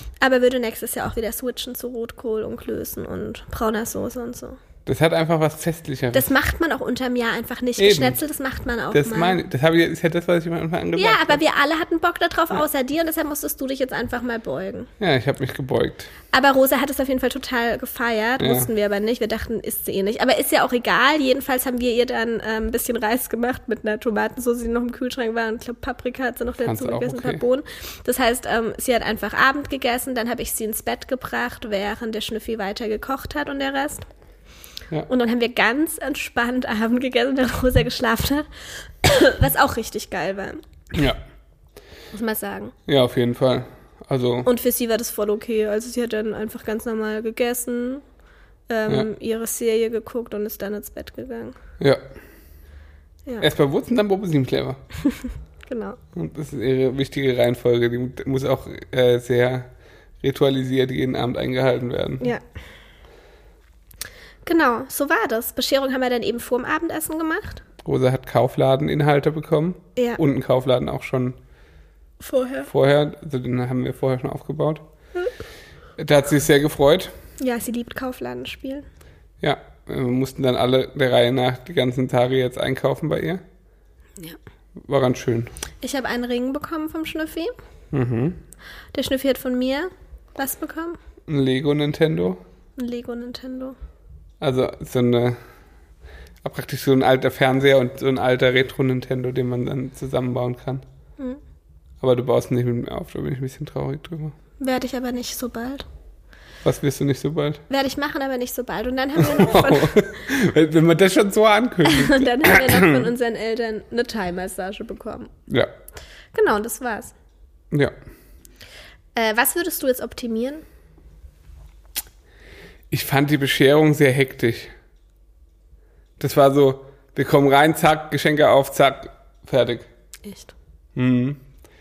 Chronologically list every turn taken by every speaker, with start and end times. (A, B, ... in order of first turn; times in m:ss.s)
0:00.2-0:04.6 A
0:04.9-0:06.3 B
0:06.1-0:09.4 A
0:07.8-0:08.2 B
0:08.9-0:11.4 B
0:11.0-0:14.9 A
0:15.0-0:16.1 B
0:16.3-0:34.1 A
0:18.4-0:18.7 B
0:26.6-0:27.4 B
0:35.1-0:38.5 A
0:39.0-0:40.6 A
0:40.9-0:41.2 B
0:42.1-0:42.8 A
0:42.9-0:44.5 B
0:44.4-0:48.0 A
0:48.7-0:51.6 A
0:53.4-0:54.8 B
0:55.1-0:56.0 A
0:56.2-0:59.7 B
1:00.2-1:02.3 B
1:04.4-1:07.6 A
1:07.8-1:11.4 B
1:12.2-1:12.7 A
1:12.7-1:14.8 B
1:16.0-1:17.1 B
1:17.4-1:18.9 A
1:19.4-1:23.4 B
1:24.8-1:25.5 B
1:25.8-1:27.5 A
1:27.9-1:28.4 B
1:28.9-1:31.0 A
1:31.3-1:32.4 B
1:32.8-1:33.8 A
1:34.4-1:35.4 B
1:36.4-1:40.8 B
1:42.0-1:44.4 B
1:44.6-1:45.9 A
1:46.6-1:47.6 B
1:47.7-1:50.2 A
1:49.2-1:53.1 B
1:51.8-1:55.3 A
1:56.3-1:57.1 A
1:59.2-2:00.6 A
2:02.9-2:04.7 B
2:06.2-2:09.9 B
2:10.2-2:10.5 A
2:11.0-2:11.4 B